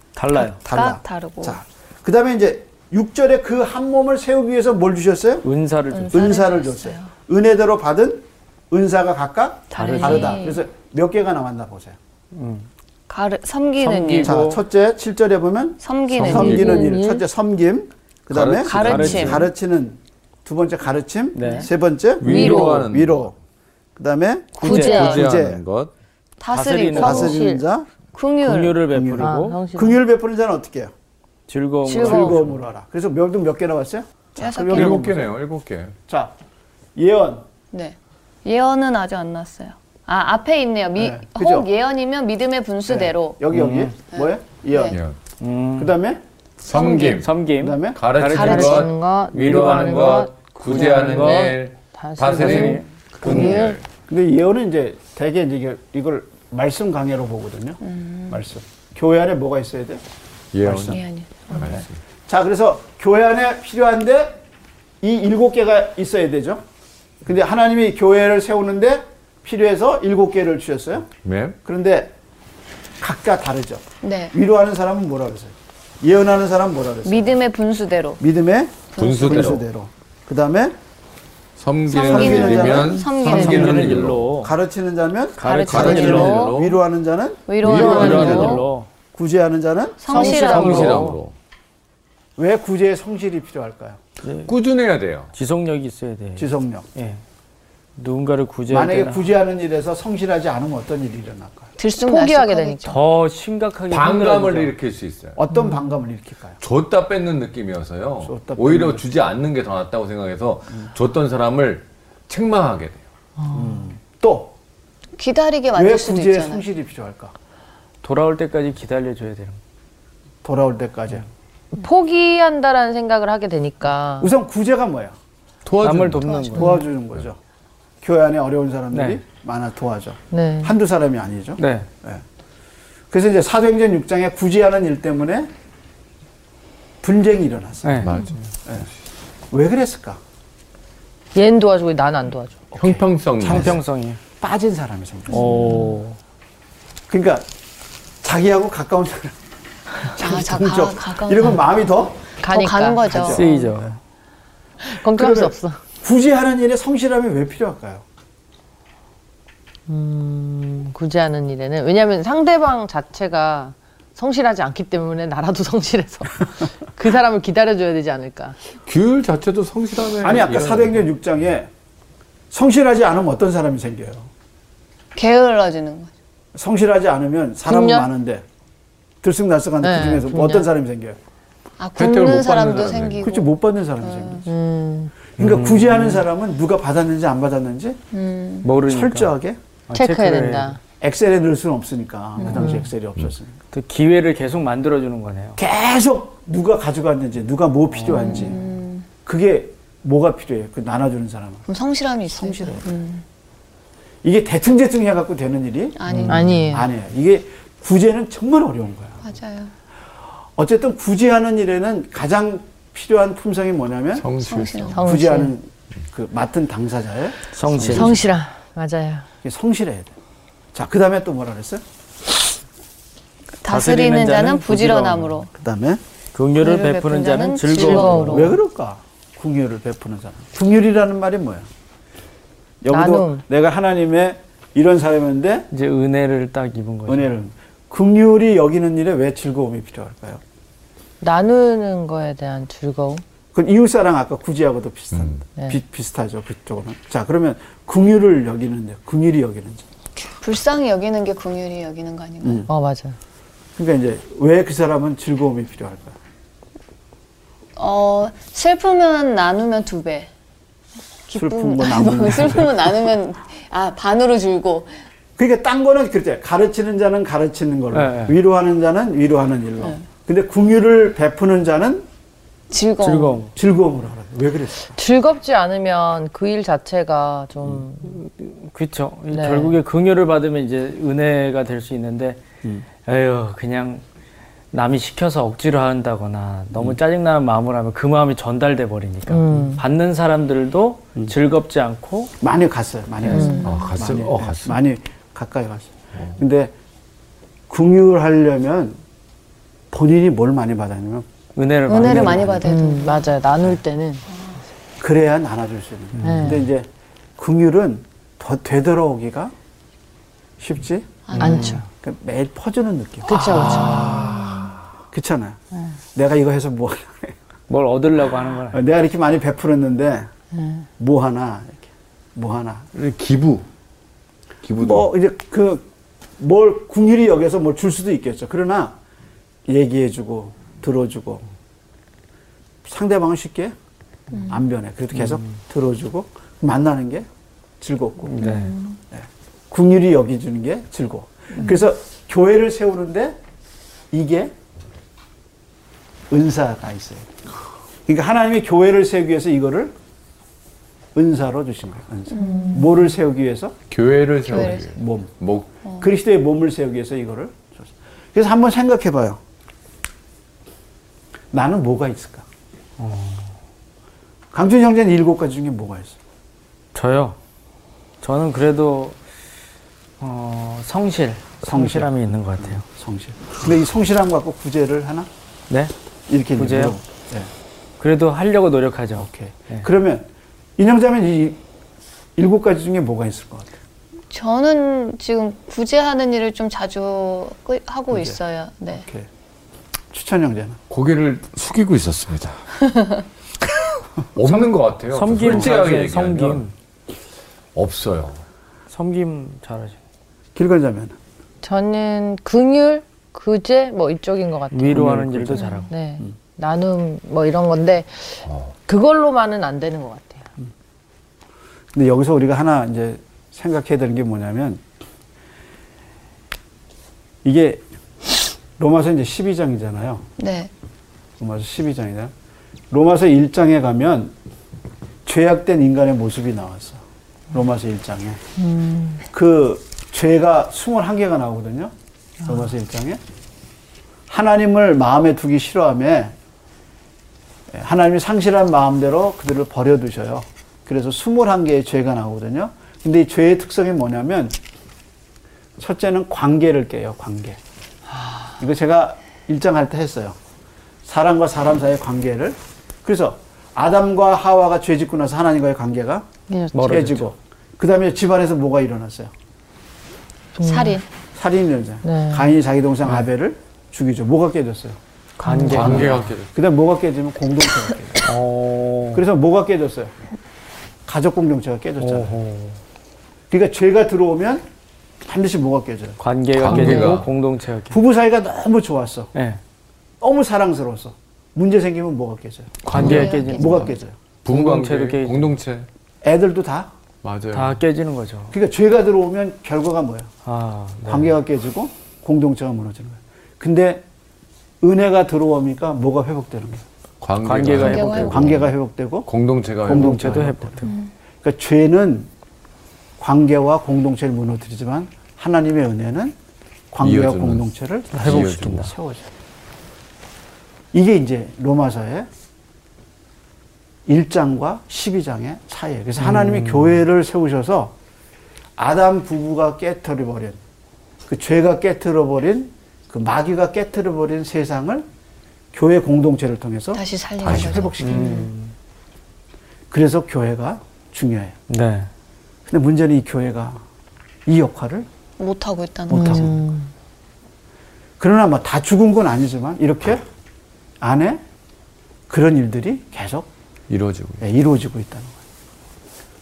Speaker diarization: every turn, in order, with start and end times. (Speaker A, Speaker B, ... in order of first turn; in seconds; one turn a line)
Speaker A: 0.2-0.6
Speaker B: 0.6-5.5
Speaker C: 0.7-1.6
Speaker A: 5.4-6.4
Speaker C: 5.9-7.1
Speaker B: 6.1-12.0
Speaker C: 9.7-10.6
Speaker A: 9.7-10.4
Speaker A: 12.3-12.7
Speaker C: 13.1-14.5
Speaker A: 13.8-14.6
Speaker B: 14.2-23.4
Speaker C: 15.8-17.0
Speaker D: 16.1-16.9
Speaker E: 16.6-17.2
Speaker D: 18.3-19.5
Speaker C: 18.6-19.4
Speaker A: 18.8-19.4
Speaker A: 21.3-21.7
Speaker C: 21.4-21.7
Speaker D: 22.2-23.2
Speaker E: 22.3-22.8
Speaker B: 24.0-25.6
Speaker A: 24.6-25.2
Speaker C: 24.6-25.3
Speaker D: 24.7-25.9
Speaker C: 26.4-27.6
Speaker A: 26.5-27.4
Speaker B: 26.9-27.9
Speaker E: 27.2-27.6
Speaker C: 28.1-28.8
Speaker A: 28.4-29.6
Speaker B: 28.9-30.9
Speaker E: 29.2-30.0
Speaker A: 31.5-32.5
Speaker C: 31.9-32.4
Speaker B: 32.0-35.4
Speaker C: 34.4-35.2
Speaker D: 34.7-36.0
Speaker B: 36.1-36.3
Speaker B: 37.0-37.5
Speaker C: 37.7-43.4
Speaker B: 41.0-41.7
Speaker B: 42.9-45.0
Speaker A: 43.5-43.9
Speaker C: 44.1-45.0
Speaker D: 44.9-45.2
Speaker A: 45.4-45.9
Speaker B: 45.8-46.2
Speaker D: 46.6-47.4
Speaker C: 46.7-47.2
Speaker A: 46.9-51.6
Speaker B: 47.6-48.0
Speaker D: 48.0-53.9
Speaker C: 48.3-48.9
Speaker E: 48.3-52.8
Speaker A: 52.3-53.6
Speaker C: 53.2-53.8
Speaker B: 54.1-60.0
Speaker C: 57.8-58.4
Speaker D: 60.5-61.9
Speaker B: 60.6-61.0
Speaker C: 60.9-61.8
Speaker B: 62.3-64.4
Speaker B: 65.0-66.6
Speaker B: 67.2-71.1
Speaker D: 71.2-71.6
Speaker B: 71.6-72.1
Speaker B: 73.0-77.4
Speaker C: 74.0-74.3
Speaker C: 77.0-78.2
Speaker B: 78.2-80.8
Speaker D: 79.0-79.6
Speaker C: 79.0-79.3
Speaker D: 81.6-84.3
Speaker C: 81.9-84.0
Speaker B: 81.9-88.5
Speaker A: 83.2-84.6
Speaker A: 85.4-86.5
Speaker C: 85.4-86.6
Speaker D: 85.7-86.8
Speaker C: 87.5-88.7
Speaker D: 87.6-88.7
Speaker A: 87.6-88.9
Speaker B: 89.1-90.3
Speaker C: 90.0-91.0
Speaker A: 90.1-91.2
Speaker D: 90.1-91.3
Speaker B: 92.4-94.0
Speaker A: 94.2-94.5
Speaker D: 94.5-95.3
Speaker A: 95.3-97.2
Speaker B: 96.4-96.9
Speaker A: 98.0-99.3
Speaker B: 98.7-101.7
Speaker C: 101.8-103.0
Speaker E: 102.0-103.0
Speaker A: 102.9-104.7
Speaker D: 103.9-105.4
Speaker B: 105.4-106.6
Speaker E: 105.5-105.8
Speaker D: 106.6-113.0
Speaker B: 108.2-109.0
Speaker E: 113.4-113.8
Speaker B: 113.5-114.5
Speaker C: 115.2-116.6
Speaker B: 115.7-117.3
Speaker A: 118.0-119.6
Speaker B: 120.4-121.3
Speaker E: 121.7-124.3
Speaker B: 124.2-125.2
Speaker D: 125.7-126.4
Speaker A: 125.8-126.8
Speaker C: 126.2-126.8
Speaker B: 126.5-127.4
Speaker B: 128.0-132.2
Speaker A: 128.9-129.2
Speaker E: 130.3-130.7
Speaker A: 131.6-131.9
Speaker B: 133.1-135.5
Speaker B: 137.0-138.9
Speaker A: 137.8-138.2
Speaker D: 138.0-138.4
Speaker B: 139.5-140.2
Speaker E: 141.3-142.7
Speaker B: 142.7-143.8
Speaker D: 142.8-143.8
Speaker A: 143.4-144.2
Speaker B: 144.4-145.6
Speaker A: 145.3-146.2
Speaker C: 145.3-145.8
Speaker B: 147.1-147.5
Speaker B: 148.2-149.4
Speaker B: 150.0-152.3
Speaker C: 150.2-151.7
Speaker E: 152.4-153.1
Speaker C: 152.5-153.7
Speaker B: 153.0-153.9
Speaker A: 153.2-154.0
Speaker E: 154.8-155.8
Speaker B: 155.0-158.0
Speaker E: 159.9-168.6
Speaker D: 168.9-171.0
Speaker B: 170.2-171.7
Speaker B: 172.5-174.3
Speaker C: 175.2-176.1
Speaker B: 176.6-178.4
Speaker E: 177.7-178.1
Speaker B: 179.2-181.2
Speaker E: 179.8-180.7
Speaker C: 181.8-184.4
Speaker D: 182.0-183.3
Speaker B: 183.2-184.5
Speaker E: 184.5-185.3
Speaker B: 185.4-188.0
Speaker A: 185.4-186.2
Speaker C: 188.1-188.7
Speaker A: 188.6-189.3
Speaker B: 188.8-189.6
Speaker A: 189.9-190.8
Speaker E: 189.9-190.8
Speaker B: 191.0-193.6
Speaker C: 192.4-192.9
Speaker A: 193.7-195.6
Speaker B: 195.6-198.6
Speaker A: 197.9-198.5
Speaker C: 198.1-199.1
Speaker B: 199.2-201.7
Speaker C: 201.7-203.2
Speaker B: 202.3-202.9
Speaker B: 204.2-209.2
Speaker C: 206.0-206.6
Speaker A: 206.1-206.7
Speaker E: 206.3-206.9
Speaker C: 209.2-209.7
Speaker B: 210.6-214.3
Speaker D: 214.2-215.0
Speaker C: 214.4-215.5
Speaker E: 214.9-215.4
Speaker B: 215.0-218.2
Speaker A: 217.5-218.2
Speaker D: 217.8-218.1
Speaker E: 217.9-219.3
Speaker B: 219.4-220.1
Speaker B: 220.7-221.8
Speaker C: 223.6-225.5
Speaker A: 223.7-225.4
Speaker B: 225.5-226.0
Speaker A: 226.3-228.6
Speaker C: 226.6-228.6
Speaker B: 227.8-231.7
Speaker E: 227.8-228.1
Speaker B: 232.8-235.7
Speaker E: 232.9-233.4
Speaker A: 235.7-237.3
Speaker B: 237.1-240.4
Speaker E: 241.2-243.2
Speaker B: 243.5-249.8
Speaker D: 245.1-245.4
Speaker C: 250.4-252.7
Speaker B: 252.4-252.7
Speaker E: 252.7-253.2
Speaker B: 253.8-256.2
Speaker C: 257.8-260.3
Speaker C: 261.3-264.9
Speaker B: 261.3-262.9
Speaker B: 265.4-272.1
Speaker A: 267.9-268.4
Speaker C: 272.7-273.4
Speaker A: 273.0-273.5
Speaker B: 273.6-274.9
Speaker E: 275.0-278.2
Speaker A: 278.1-282.4
Speaker E: 279.3-279.8
Speaker A: 283.0-284.0
Speaker A: 284.7-292.3
Speaker E: 289.3-289.8
Speaker B: 292.4-296.7
Speaker E: 293.3-293.7
Speaker C: 293.3-293.9
Speaker D: 293.6-294.8
Speaker B: 297.7-299.0
Speaker B: 299.9-301.3
Speaker A: 301.6-302.6
Speaker C: 301.9-303.4
Speaker B: 301.9-302.7
Speaker E: 302.6-304.2
Speaker B: 305.0-309.5
Speaker A: 306.2-306.6
Speaker E: 306.2-306.6
Speaker B: 310.6-313.9
Speaker C: 311.3-311.8
Speaker A: 311.4-311.8
Speaker E: 311.4-311.9
Speaker E: 313.3-314.5
Speaker D: 313.5-314.8
Speaker C: 313.6-314.0
Speaker B: 315.1-315.6
Speaker B: 316.1-317.4
Speaker A: 317.7-318.8
Speaker B: 318.7-320.3
Speaker E: 320.6-320.9
Speaker B: 321.0-322.9
Speaker D: 322.9-323.7
Speaker D: 324.6-325.1
Speaker B: 324.8-325.9
Speaker B: 326.4-329.0
Speaker B: 329.7-331.5
Speaker B: 332.9-333.8
Speaker C: 334.3-334.6
Speaker B: 334.4-337.3
Speaker A: 335.1-335.5
Speaker B: 337.8-343.4
Speaker A: 338.3-338.8
Speaker C: 338.4-339.0
Speaker B: 344.1-344.5
Speaker B: 346.3-347.3
Speaker B: 348.1-349.9
Speaker B: 351.1-353.8
Speaker C: 352.4-352.8
Speaker D: 353.9-355.7
Speaker C: 354.5-354.9
Speaker B: 354.5-355.4
Speaker B: 356.0-359.4
Speaker B: 361.5-362.5
Speaker A: 363.0-363.5
Speaker B: 364.5-366.2
Speaker A: 366.9-367.4
Speaker A: 368.2-369.2
Speaker A: 370.2-372.8
Speaker B: 371.6-375.3
Speaker B: 376.3-377.5
Speaker A: 376.6-377.0
Speaker A: 378.0-379.9
Speaker B: 379.2-381.6
Speaker B: 382.4-383.8
Speaker C: 384.3-389.1
Speaker B: 388.1-388.4
Speaker B: 388.9-389.3
Speaker B: 390.1-390.8
Speaker D: 390.9-392.6
Speaker D: 394.3-396.7
Speaker A: 394.5-396.7
Speaker B: 395.5-395.8
Speaker D: 397.8-398.4
Speaker A: 398.9-400.0
Speaker B: 400.6-401.2
Speaker E: 401.6-405.1
Speaker A: 404.7-405.9
Speaker B: 404.9-406.2
Speaker E: 405.9-410.5
Speaker D: 408.5-408.7
Speaker B: 411.9-414.8
Speaker B: 417.4-417.8
Speaker B: 418.8-420.3
Speaker C: 420.4-420.7
Speaker B: 421.4-422.3
Speaker B: 422.9-424.4
Speaker B: 425.2-428.4
Speaker E: 428.6-429.2
Speaker B: 429.3-431.9
Speaker B: 432.4-433.2
Speaker B: 434.3-436.4
Speaker B: 437.7-444.6
Speaker B: 445.8-447.6
Speaker B: 448.6-450.4
Speaker B: 451.1-459.3
Speaker E: 456.5-457.0
Speaker A: 456.7-457.2
Speaker E: 460.6-461.0
Speaker C: 460.6-461.1
Speaker B: 461.3-465.0
Speaker E: 462.0-462.5
Speaker E: 465.4-466.1
Speaker A: 465.4-466.3
Speaker D: 465.7-466.5
Speaker B: 465.7-468.3
Speaker A: 468.2-469.2
Speaker B: 469.1-470.1
Speaker B: 471.1-472.4
Speaker A: 472.0-472.8
Speaker B: 473.5-474.6
Speaker B: 475.2-477.2
Speaker A: 476.2-478.0
Speaker D: 476.6-477.3
Speaker B: 477.9-479.3
Speaker A: 479.3-479.6
Speaker B: 480.2-484.2
Speaker D: 482.8-483.4
Speaker A: 482.9-483.9
Speaker C: 482.9-483.9
Speaker D: 484.4-485.9
Speaker A: 484.5-485.6
Speaker B: 486.2-486.9
Speaker D: 487.2-487.8
Speaker A: 487.5-488.6
Speaker B: 488.5-490.3
Speaker A: 490.4-491.3
Speaker B: 491.1-494.0
Speaker B: 494.8-496.9
Speaker D: 497.2-498.7
Speaker A: 497.4-498.4
Speaker C: 497.8-498.4
Speaker B: 498.0-499.3
Speaker D: 499.3-500.4
Speaker B: 499.8-500.9
Speaker A: 499.9-501.0
Speaker C: 500.9-501.1
Speaker B: 501.4-502.3
Speaker B: 503.2-506.4
Speaker B: 506.9-509.3
Speaker D: 507.0-508.9
Speaker A: 508.1-508.9
Speaker B: 510.9-512.3
Speaker B: 514.1-518.0
Speaker A: 516.2-517.0
Speaker B: 518.8-520.6
Speaker B: 521.3-525.1
Speaker B: 525.7-528.5
Speaker C: 526.9-528.5
Speaker D: 527.4-527.9
Speaker A: 528.0-528.7
Speaker B: 529.9-531.6
Speaker A: 531.7-532.1
Speaker B: 532.7-533.8
Speaker B: 534.5-535.1
Speaker C: 535.4-536.6
Speaker B: 536.1-536.6
Speaker E: 536.2-536.9
Speaker B: 538.2-540.2
Speaker B: 541.0-541.4
Speaker B: 542.3-543.5
Speaker D: 543.9-544.5
Speaker B: 544.4-545.4